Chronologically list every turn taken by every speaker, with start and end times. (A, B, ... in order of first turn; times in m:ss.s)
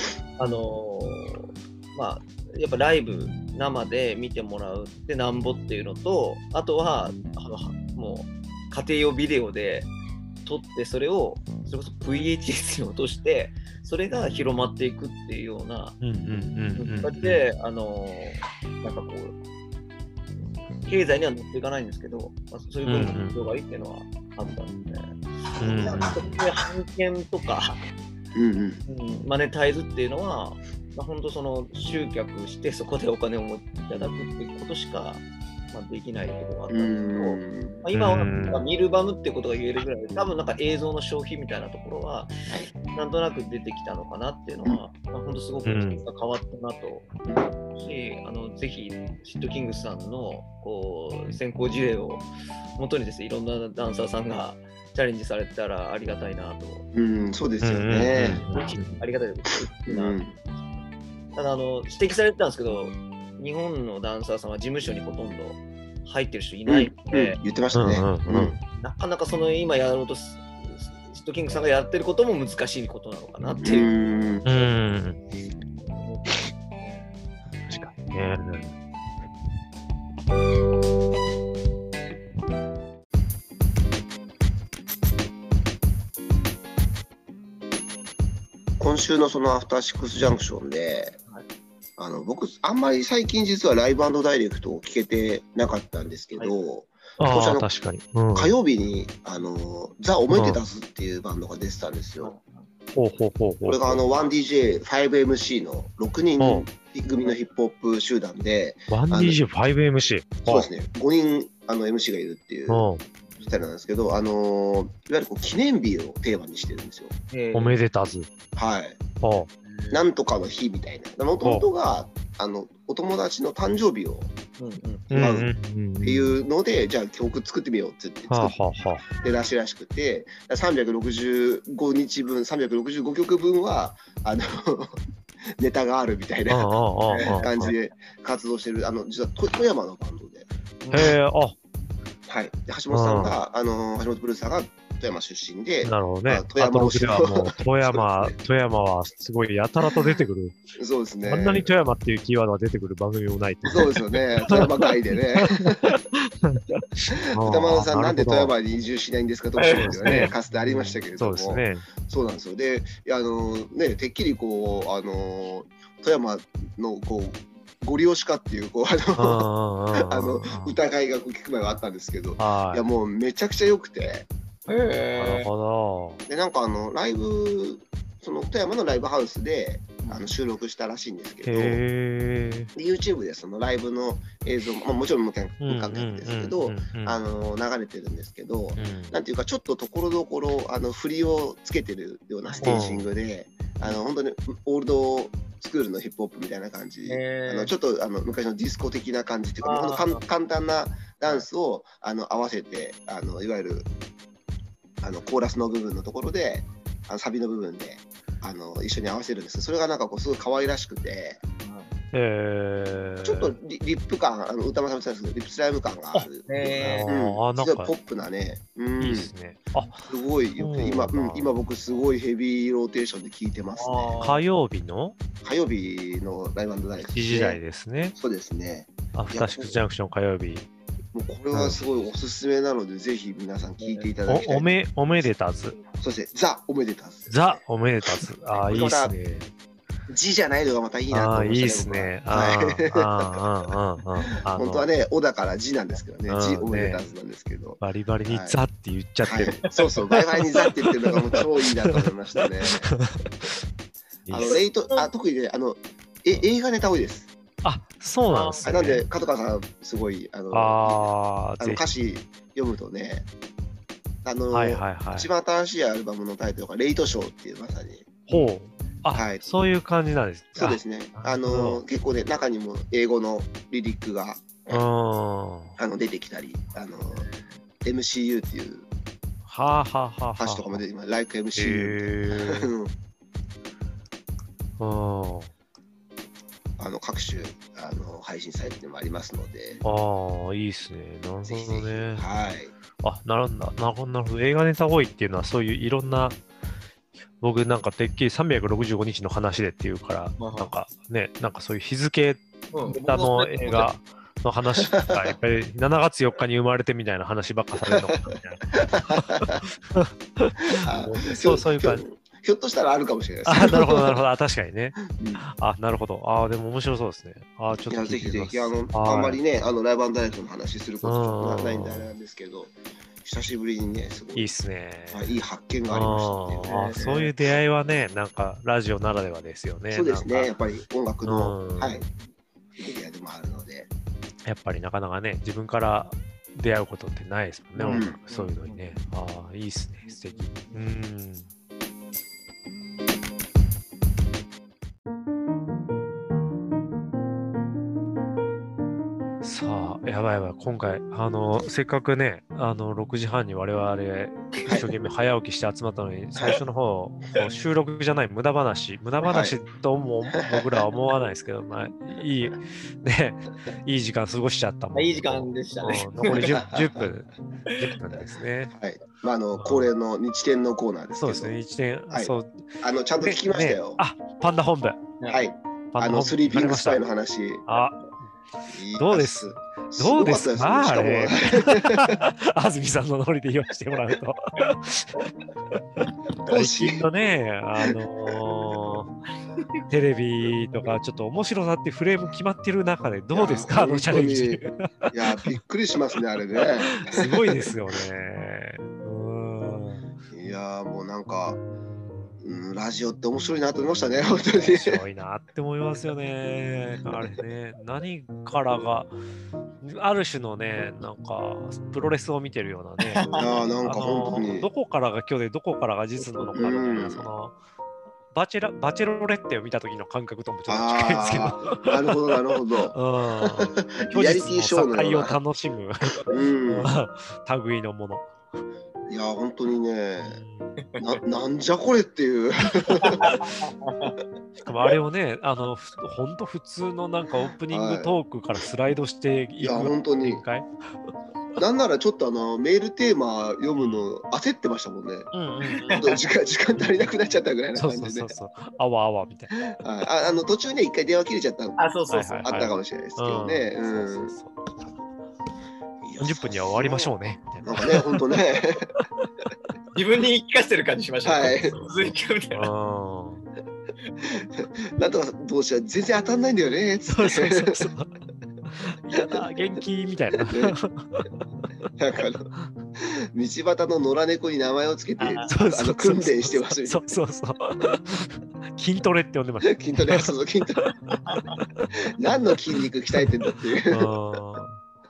0:00.4-0:09.9 A
0:10.4-0:16.0 A
0:16.0-0:17.4 B
0:16.8-0:19.4 A
0:20.4-0:27.8 A
0:22.8-0:23.4 B
0:25.6-0:26.2 B
0:28.3-0:28.8 C
0:28.9-0:42.3 A
0:36.7-0:37.8 C
0:37.9-0:38.7 B
0:42.9-0:47.1 A
0:45.6-0:46.0 B
0:47.7-0:56.9 A
0:56.9-0:58.4 C
0:57.6-0:59.0 B
0:58.5-1:00.8 A
0:59.8-1:00.4 C
1:01.3-1:07.4 A
1:06.7-1:08.6 C
1:07.8-1:08.6 B
1:08.8-1:14.0 A
1:13.6-1:14.4 C
1:14.4-1:15.2 B
1:15.8-1:17.0 A
1:17.7-1:18.7 B
1:28.8-1:31.2 C
1:32.0-1:37.7 C
1:37.2-1:38.6 B
1:38.3-1:42.3 C
1:40.3-1:40.6 B
1:42.2-1:42.7 A
1:42.9-1:44.0 B
1:43.7-1:49.4 C
1:46.4-1:46.7 B
1:48.9-1:50.7 B
1:50.5-1:52.9 C
1:52.7-1:53.0 B
1:53.3-1:53.6 A
1:53.4-1:57.2 C
1:57.3-1:57.8 A
1:57.5-1:58.3 B
1:58.6-1:59.0 C
1:59.2-1:59.5 B
1:59.6-2:00.1 A
1:59.9-2:04.3 C
2:01.4-2:01.7 B
2:04.6-2:05.1 A
2:05.1-2:06.4 B
2:05.1-2:05.5 C
2:06.0-2:21.1 C
2:08.3-2:09.1 B
2:16.5-2:17.7 B
2:17.1-2:17.4 A
2:20.8-2:21.1 A
2:20.9-2:21.6 B
2:22.3-2:28.4 C
2:22.9-2:23.4 B
2:25.8-2:30.6 B
2:29.8-2:30.2 C
2:30.8-2:31.7 C
2:31.3-2:34.6 B
2:33.7-2:36.0 C
2:35.4-2:38.5 B
2:37.4-2:54.3 C
2:39.6-2:40.3 A
2:39.7-2:41.9 B
2:49.2-2:50.8 B
2:52.4-2:52.9 B
2:54.7-2:55.5 A
2:55.2-2:56.2 B
2:56.3-3:01.8 C
3:00.0-3:00.3 A
3:01.4-3:02.7 B
3:02.8-3:23.9 C
3:05.6-3:07.2 B
3:08.8-3:09.2 B
3:12.4-3:12.8 A
3:12.6-3:13.1 B
3:17.1-3:17.7 A
3:19.6-3:20.2 A
3:25.0-3:31.4 C
3:31.6-3:31.9 A
3:32.1-3:33.6 B
3:33.2-3:39.3 C
3:36.1-3:37.9 B
3:36.5-3:37.2 A
3:39.0-3:41.5 B
3:40.1-3:44.2 C
3:43.8-3:44.4 A
3:44.2-3:45.2 B
3:45.4-3:47.6 C
3:47.0-3:48.2 B
3:48.2-3:49.8 C
3:49.1-3:50.7 B
3:51.1-3:55.3 C
3:51.5-3:51.9 B
3:53.8-3:54.1 A
3:54.3-3:55.8 B
3:55.9-3:57.6 C
3:57.3-3:59.5 B
3:58.5-3:59.2 C
4:00.1-4:03.7 C
4:01.1-4:04.9 B
4:04.5-4:08.6 C
4:06.3-4:07.0 B
4:07.8-4:10.2 B
4:09.3-4:12.9 C
4:10.8-4:11.2 B
4:11.9-4:12.1 B
4:12.7-4:13.5 B
4:14.2-4:14.6 B
4:14.3-4:17.3 C
4:17.6-4:19.0 B
4:18.3-4:18.7 A
4:18.6-4:23.3 C
4:20.5-4:21.8 B
4:24.2-4:28.2 C
4:24.5-4:25.3 B
4:28.3-4:31.8 B
4:28.3-4:29.0 A
4:29.1-4:29.5 C
4:30.6-4:34.8 C
4:34.7-4:35.8 B
4:35.8-4:37.3 C
4:37.2-4:37.5 A
4:37.8-4:38.9 C
4:39.5-4:40.8 B
4:40.4-4:42.9 C
4:41.6-4:42.7 B
4:44.8-4:45.5 B
4:46.8-4:49.8 C
4:49.8-4:52.3 B
4:51.4-4:52.7 C
4:53.0-4:56.4 B
4:57.4-5:12.1 B
5:00.4-5:00.7 A
5:02.7-5:03.9 A
5:05.1-5:05.3 C
5:08.7-5:09.6 C
5:10.8-5:14.2 C
5:13.5-5:19.4 B
5:15.1-5:15.4 C
5:17.9-5:24.5 C
5:21.0-5:22.1 B
5:24.4-5:25.4 B
5:25.1-5:27.3 C
5:25.9-5:30.5 B
5:26.6-5:27.3 A
5:29.9-5:32.0 C
5:31.3-5:32.0 B
5:32.8-5:33.9 C
5:34.5-5:41.5 B
5:37.8-5:39.0 A
5:37.9-5:38.2 C
5:40.0-5:40.9 A
5:49.4-6:08.7 B
5:59.3-5:59.6 C
6:00.4-6:00.8 C
6:04.9-6:06.6 A
6:06.2-6:07.1 C
6:08.7-6:11.6 C
6:09.6-6:09.9 B
6:11.2-6:15.0 B
6:12.1-6:14.0 C
6:15.2-6:15.5 A
6:15.3-6:17.6 C
6:15.9-6:17.1 B
6:17.7-6:25.3 B
6:18.7-6:22.2 C
6:26.4-6:29.2 B
6:26.5-6:27.1 C
6:29.9-6:35.6 B
6:33.3-6:34.6 C
6:35.1-6:37.7 C
6:36.9-6:40.1 B
6:40.3-6:41.6 C
6:42.4-6:45.0 C
6:44.5-6:49.2 B
6:49.8-6:57.6 B
6:53.0-6:54.4 A
6:53.4-6:54.7 C
6:56.2-6:56.8 A
6:56.6-6:57.3 C
6:58.3-7:02.2 B
7:00.7-7:05.4 C
7:02.9-7:08.3 B
7:06.3-7:06.9 C
7:09.1-7:10.4 C
7:10.2-7:10.8 B
7:10.8-7:11.2 A
7:11.0-7:13.4 C
7:13.0-7:14.2 A
7:14.6-7:20.7 B
7:17.7-7:18.2 C
7:19.6-7:20.4 C
7:21.6-7:25.3 C
7:23.8-7:24.1 B
7:25.3-7:26.2 B
7:25.9-7:26.2 A
7:25.9-7:28.3 C
7:27.8-7:29.7 B
7:29.7-7:31.8 C
7:31.8-7:32.6 A
7:32.1-7:35.0 B
7:32.4-7:34.3 C
7:36.0-7:38.9 C
7:36.2-7:38.2 B
7:40.0-7:42.7 A
7:41.2-7:41.8 C
7:42.5-7:43.5 B
7:44.9-7:47.8 C
7:47.1-7:48.1 B
7:48.6-7:51.3 B
7:49.2-7:49.4 C
7:50.5-7:50.8 C
7:52.0-7:52.5 C
7:53.0-7:57.2 C
7:55.2-7:55.5 A
7:55.4-8:01.9 B
7:59.7-8:00.9 C
8:01.3-8:01.6 A
8:02.1-8:04.1 C
8:03.9-8:04.8 B